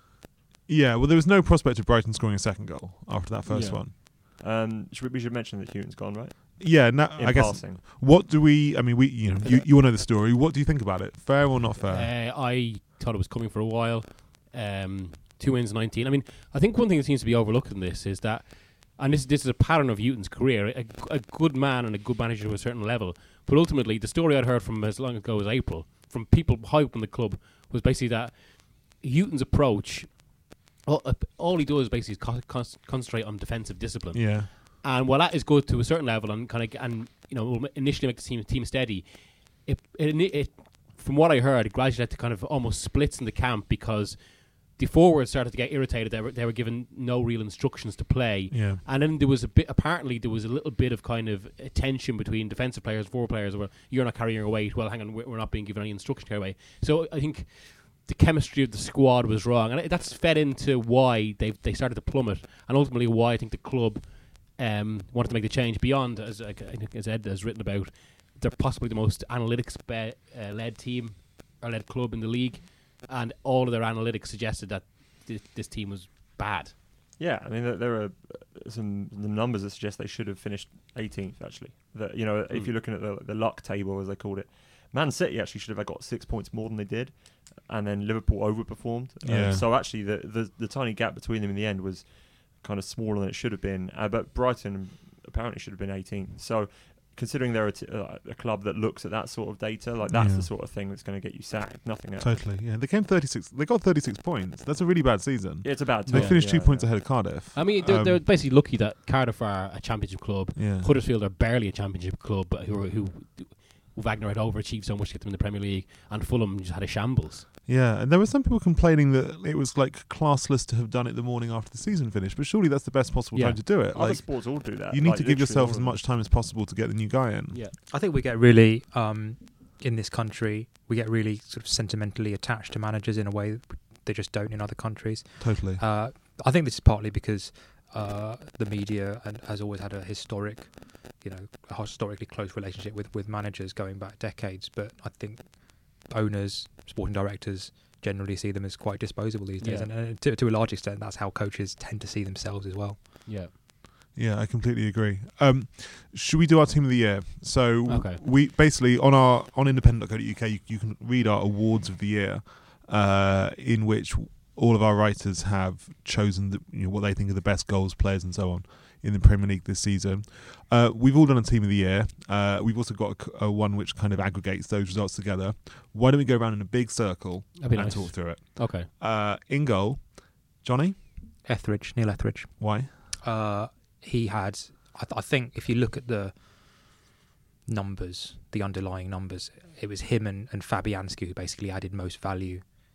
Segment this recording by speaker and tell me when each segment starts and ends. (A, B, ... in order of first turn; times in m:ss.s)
0:00.7-0:03.9 A
0:03.5-0:03.8 B
0:04.2-0:07.8 C
0:06.6-0:12.1 A
0:11.9-1:16.7 B
0:34.1-0:34.5 A
0:48.5-0:48.8 A
1:17.2-1:42.4 C
1:29.2-1:29.7 A
1:40.1-1:40.5 A
1:42.2-1:48.2 A
1:45.6-1:47.0 C
1:46.1-1:46.5 B
1:47.1-1:57.5 B
1:50.6-1:50.9 A
1:57.7-2:07.6 A
2:03.3-2:03.6 B
2:03.9-2:06.0 C
2:07.5-2:07.8 B
2:07.9-2:33.2 D
2:15.4-2:15.8 A
2:29.6-2:29.9 B
2:33.2-2:33.5 B
2:34.1-3:01.0 A
2:37.9-2:38.2 B
2:57.6-2:58.9 B
3:01.4-3:02.5 D
3:02.6-3:02.9 A
3:03.2-3:06.4 D
3:07.6-3:12.6 D